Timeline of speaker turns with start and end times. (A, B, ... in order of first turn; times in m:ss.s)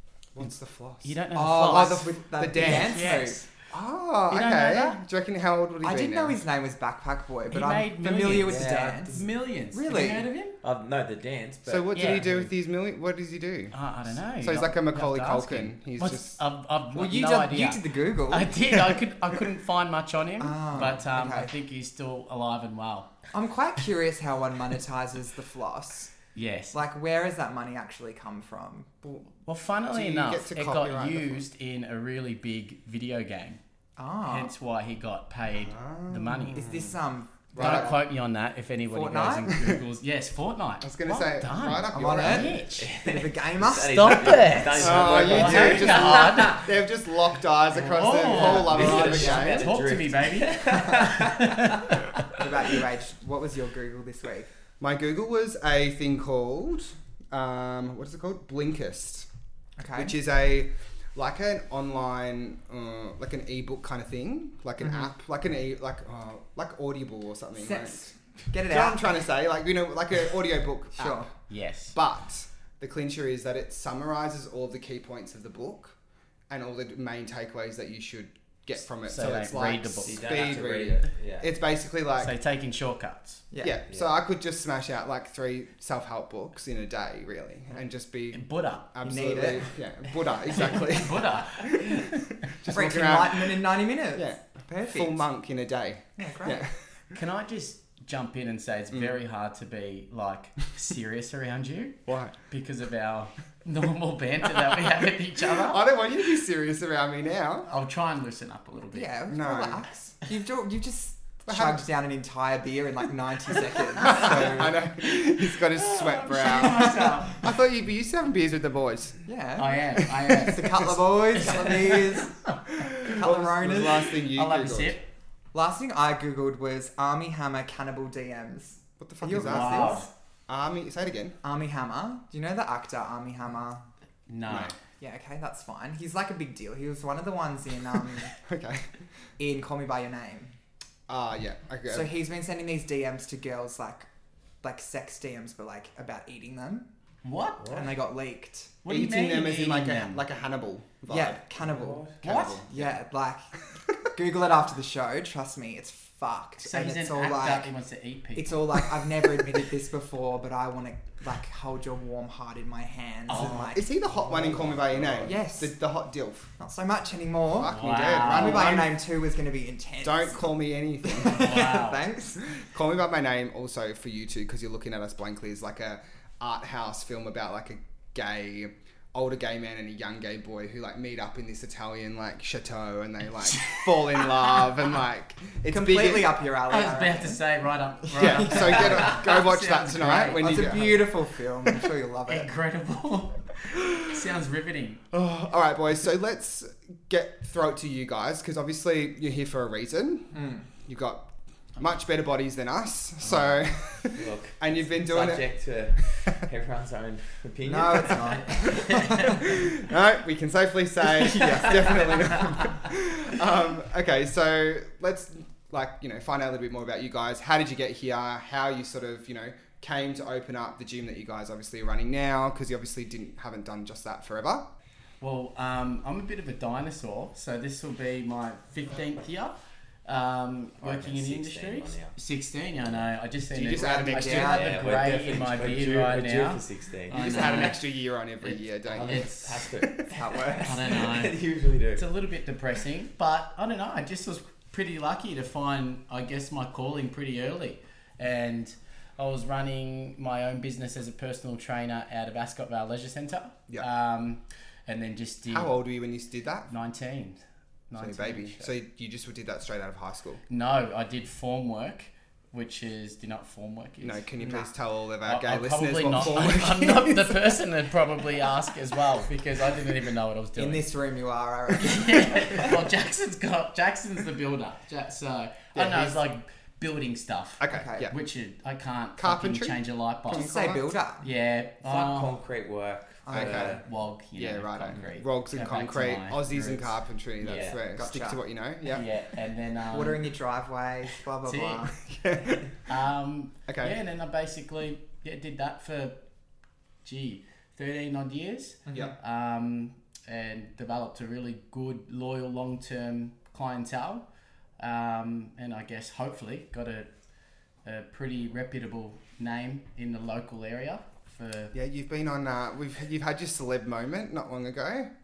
0:00.3-0:06.4 A
0:01.0-0:03.5 B
0:01.3-0:03.4 C
0:04.3-0:05.0 B
0:05.8-0:10.3 C
0:07.5-0:10.6 B
0:08.3-0:09.2 D
0:10.6-0:12.3 D
0:11.6-0:16.4 A
0:11.9-0:12.5 B
0:13.7-0:23.1 B
0:16.9-0:18.6 C
0:20.4-0:21.5 C
0:23.3-0:26.1 C
0:26.3-0:26.8 B
0:26.7-0:28.9 C
0:29.4-0:33.6 B
0:29.9-0:31.4 A
0:34.0-0:34.5 C
0:34.2-0:36.6 B
0:35.5-0:36.9 A
0:36.5-0:38.0 C
0:37.5-0:37.9 A
0:37.6-0:42.9 B
0:38.9-0:39.5 C
0:39.5-0:39.8 A
0:40.8-0:42.7 A
0:41.9-0:44.3 C
0:42.7-0:46.7 D
0:43.9-0:46.7 B
0:44.7-0:49.7 A
0:47.7-0:52.3 B
0:48.3-0:49.3 C
0:48.3-0:52.2 D
0:52.3-0:54.5 C
0:54.8-0:59.3 A
0:59.8-1:00.1 C
1:00.0-1:08.1 A
1:07.6-1:09.1 C
1:08.6-1:11.3 A
1:11.0-1:11.3 C
1:11.5-1:12.0 B
1:11.9-1:16.0 A
1:16.5-1:22.3 A
1:19.0-1:20.5 B
1:20.0-1:21.5 D
1:22.2-1:23.4 B
1:23.5-1:23.8 C
1:23.6-1:33.6 A
1:28.3-1:29.6 B
1:29.0-1:29.7 C
1:30.5-1:32.5 B
1:32.7-1:35.2 C
1:34.2-1:36.7 A
1:36.2-1:36.7 C
1:37.1-1:45.8 B
1:42.1-1:42.3 A
1:45.5-1:47.7 A
1:47.7-1:49.1 B
1:48.9-1:54.8 C
1:49.3-1:49.9 A
1:51.5-1:51.8 A
1:54.0-1:59.2 A
1:55.9-1:57.4 B
1:59.2-2:02.4 C
1:59.6-2:01.9 B
2:00.2-2:00.6 A
2:02.8-2:05.0 A
2:03.1-2:04.2 C
2:04.2-2:05.0 B
2:05.5-2:10.1 C
2:09.0-2:11.4 A
2:09.3-2:10.1 B
2:11.4-2:13.8 C
2:14.3-2:14.8 B
2:14.4-2:14.7 A
2:15.0-2:18.3 C
2:18.4-2:19.0 A
2:19.4-2:20.5 C
2:21.1-2:22.1 A
2:21.9-2:24.1 C
2:24.6-2:26.9 C
2:27.2-2:27.8 B
2:27.6-2:27.9 D
2:27.7-2:28.7 C
2:28.8-2:30.2 B
2:28.8-2:31.4 A
2:31.1-2:33.5 C
2:31.6-2:32.8 D
2:32.2-2:32.7 A
2:32.2-2:32.6 B
2:34.0-2:37.7 C
2:36.6-2:38.9 B
2:38.3-2:44.0 C
2:43.3-2:43.8 B
2:43.4-2:46.5 A
2:44.1-2:45.3 D
2:45.2-2:45.7 C
2:46.6-2:52.5 C
2:47.6-2:48.9 A
2:47.6-2:48.8 B
2:50.0-2:51.4 A
2:51.2-2:52.0 B
2:52.4-3:06.4 A
3:03.5-3:04.3 B
3:05.7-3:07.4 C
3:06.7-3:11.0 B
3:08.1-3:11.0 A
3:08.2-3:09.1 C
3:10.3-3:12.5 C
3:12.3-3:15.0 B
3:15.1-3:25.4 A
3:20.3-3:20.7 C
3:24.1-3:28.6 D
3:27.6-3:29.4 C
3:28.3-3:29.5 B
3:29.3-3:44.7 A
3:31.3-3:32.2 D
3:31.4-3:32.1 B
3:45.2-3:57.8 B
3:50.8-3:52.2 D
3:53.5-3:55.2 A
3:54.1-3:54.8 C
3:54.3-3:57.7 D
3:57.1-3:59.3 A
3:58.4-3:59.7 B
3:58.9-4:02.1 D
4:00.1-4:00.8 C
4:00.6-4:01.4 B
4:02.0-4:15.7 B
4:15.5-4:16.7 A
4:16.7-4:18.7 B
4:17.9-4:20.4 A
4:20.5-4:24.3 B
4:24.0-4:27.5 A
4:25.2-4:30.8 B
4:30.6-4:32.6 C
4:31.8-4:40.5 B
4:35.7-4:36.2 A
4:37.6-4:38.1 A
4:37.7-4:38.1 C
4:39.2-4:40.8 A
4:40.3-4:41.2 C
4:41.2-4:42.3 B
4:41.8-4:43.8 D
4:43.3-4:43.8 A
4:43.3-4:47.8 B
4:44.3-4:49.1 A
4:47.4-4:47.8 D
4:47.9-4:48.4 C
4:48.9-4:50.3 B
4:49.9-4:51.9 C
4:51.4-4:51.9 B
4:52.1-4:52.6 A
4:52.8-4:56.2 B
4:53.7-4:53.9 A
4:57.0-5:04.2 B
4:58.9-4:59.1 C
5:04.8-5:07.1 B
5:07.8-5:11.7 B
5:11.7-5:15.1 A